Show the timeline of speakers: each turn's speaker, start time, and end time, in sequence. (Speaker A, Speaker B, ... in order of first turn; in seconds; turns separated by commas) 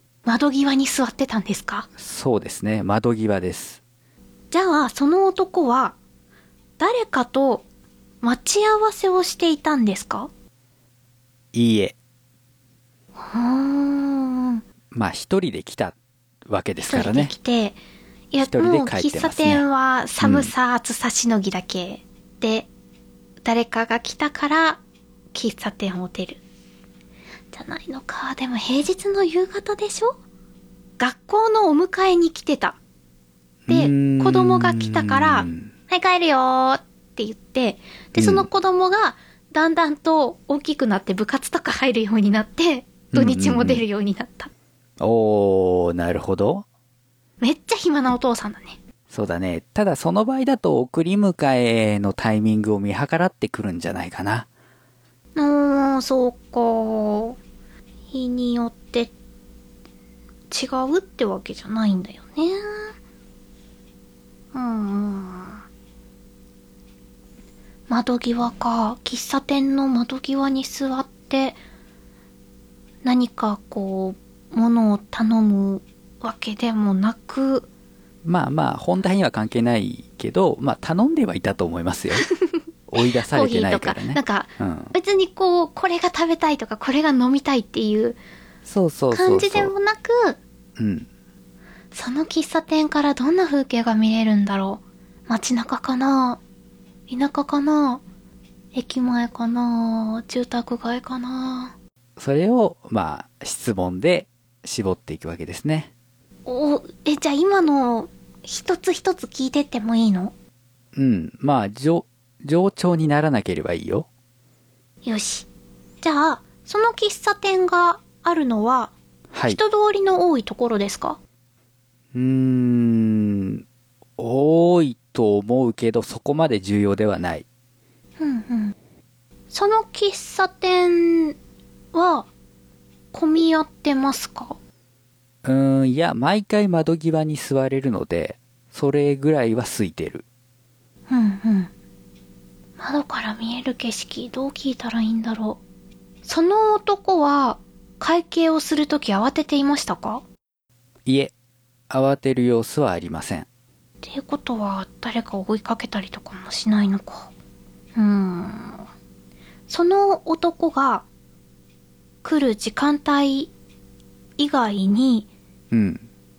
Speaker A: 0.2-1.9, Speaker B: 2.0-3.8, Speaker A: 4.5-6.0, Speaker A: 6.8-7.7, Speaker A: 8.2-10.3, Speaker B: 11.5-12.0, Speaker A: 13.2-14.6, Speaker B: 14.9-17.3, Speaker A: 16.8-17.8, Speaker A: 18.3-22.7, Speaker B: 18.4-19.6, Speaker B: 20.2-20.5, Speaker A: 23.4-24.8, Speaker A: 25.3-26.4, Speaker A: 27.5-30.2, Speaker A: 31.0-32.8, Speaker B: 33.7-35.7, Speaker A: 33.7-44.5, Speaker B: 38.2-38.5, Speaker B: 43.1-43.8, Speaker B: 45.0-46.7, Speaker A: 47.4-48.8, Speaker B: 49.1-54.5, Speaker A: 55.4-57.4, Speaker A: 58.1-59.1, Speaker A: 60.5-63.0, Speaker A: 64.5-65.6, Speaker A: 67.9-71.6, Speaker A: 73.0-77.7, Speaker B: 78.2-82.3, Speaker A: 82.1-88.2, Speaker B: 82.9-84.9, Speaker B: 88.7-89.7, Speaker A: 89.1-90.4, Speaker B: 90.8-91.1, Speaker A: 91.9-96.4, Speaker A: 97.1-98.0, Speaker A: 98.7-101.7, Speaker B: 102.2-105.9, Speaker A: 106.5-110.3, Speaker B: 111.0-114.1, Speaker A: 115.0-115.5, Speaker A: 116.0-118.9, Speaker B: 119.3-119.6, Speaker A: 119.5-121.2, Speaker B: 122.1-123.6, Speaker B: 124.2-127.5, Speaker A: 128.2-128.8, Speaker A: 129.5-131.4, Speaker A: 131.9-132.3, Speaker A: 133.1-134.6, Speaker B: 135.4-140.2, Speaker A: 141.1-141.7, Speaker A: 142.8-145.6, Speaker A: 146.2-150.2, Speaker B: 151.1-151.3, Speaker B: 151.9-153.5, Speaker A: 154.0-157.3, Speaker A: 157.9-158.8, Speaker A: 159.7-161.1, Speaker A: 162.2-163.5, Speaker A: 164.4-165.3, Speaker B: 165.7-166.1